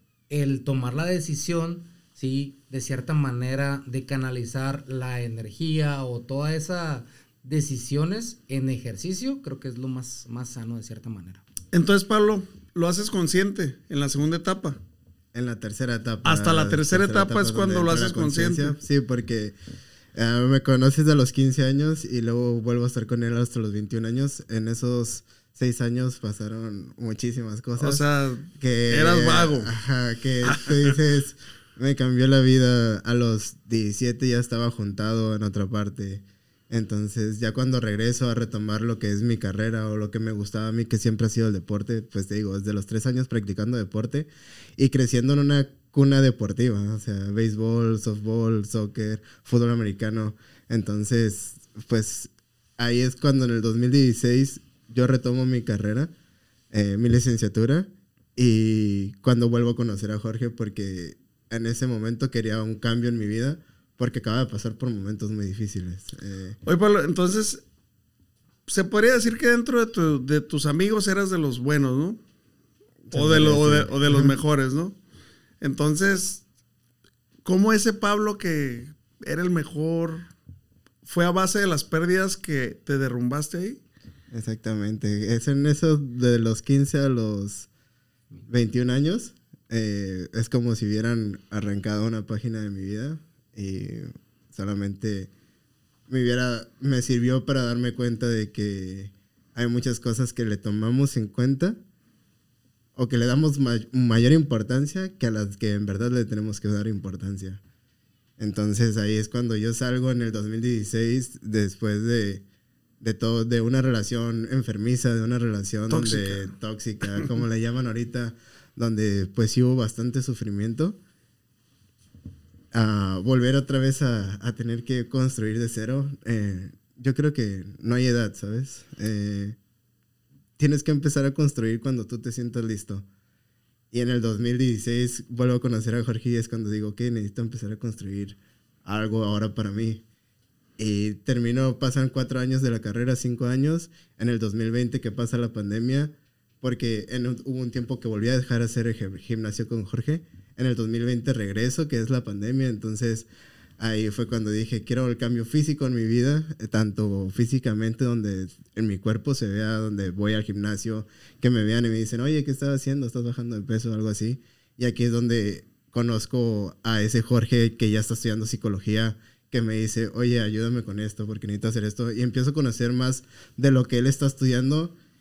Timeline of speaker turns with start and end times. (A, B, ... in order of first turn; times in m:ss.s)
0:00.3-0:11.4 A
0:11.7-0:14.8 B
0:15.3-0:19.5 C
0:16.2-0:18.7 B
0:20.1-0:28.0 C
0:27.8-0:29.7 B
0:28.6-0:56.1 C
0:30.4-0:31.0 B
0:56.7-1:06.6 C
1:06.6-1:07.6 B
1:08.7-1:12.2 B
1:13.1-1:14.3 C
1:13.1-1:15.0 B
1:15.6-1:16.4 B
1:17.4-1:20.3 B
1:21.0-1:23.8 B
1:24.3-1:27.7 C
1:28.5-1:35.3 C
1:36.1-1:41.8 C
1:43.0-1:47.6 C
1:48.4-1:52.4 C
1:53.0-2:01.0 C
1:55.9-1:56.5 B
2:02.7-2:09.6 C
2:10.6-2:13.0 C
2:13.9-2:20.0 C
2:20.8-2:33.3 C
2:33.8-2:54.9 C